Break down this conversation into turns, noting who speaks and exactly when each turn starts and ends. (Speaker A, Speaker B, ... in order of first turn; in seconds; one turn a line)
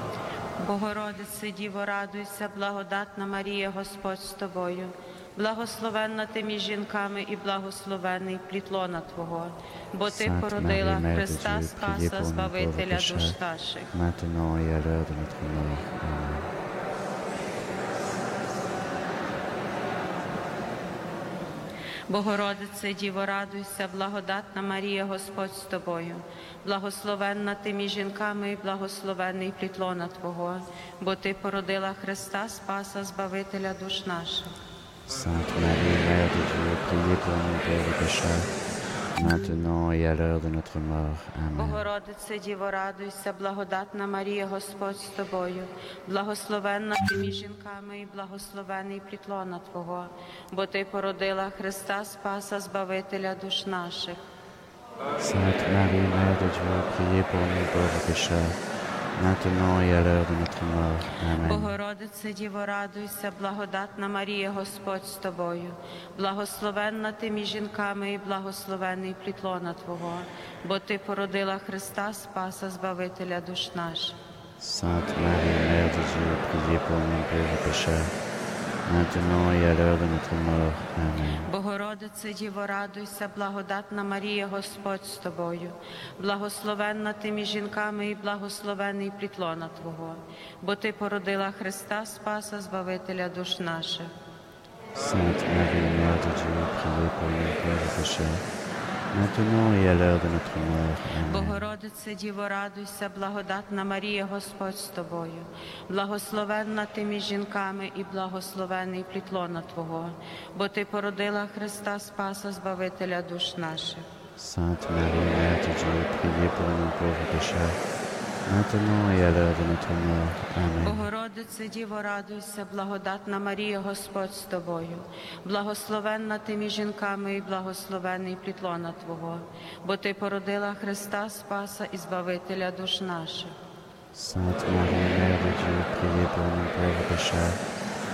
Speaker A: 0.6-13.9
Speaker B: 10.1-13.4
Speaker B: 13.9-16.5
Speaker A: 22.1-34.5
Speaker B: 35.1-38.5
Speaker B: 39.1-41.9
Speaker A: 41.5-54.2
Speaker B: 55.2-58.6
Speaker B: 59.1-61.8
Speaker A: 61.4-74.2
Speaker B: 74.6-78.1
Speaker B: 78.9-81.5
Speaker A: 81.5-94.1
Speaker B: 95.0-98.4
Speaker B: 99.1-101.7
Speaker A: 101.3-114.0
Speaker B: 114.4-117.8
Speaker B: 118.5-121.1
Speaker A: 120.8-133.6
Speaker B: 134.2-137.6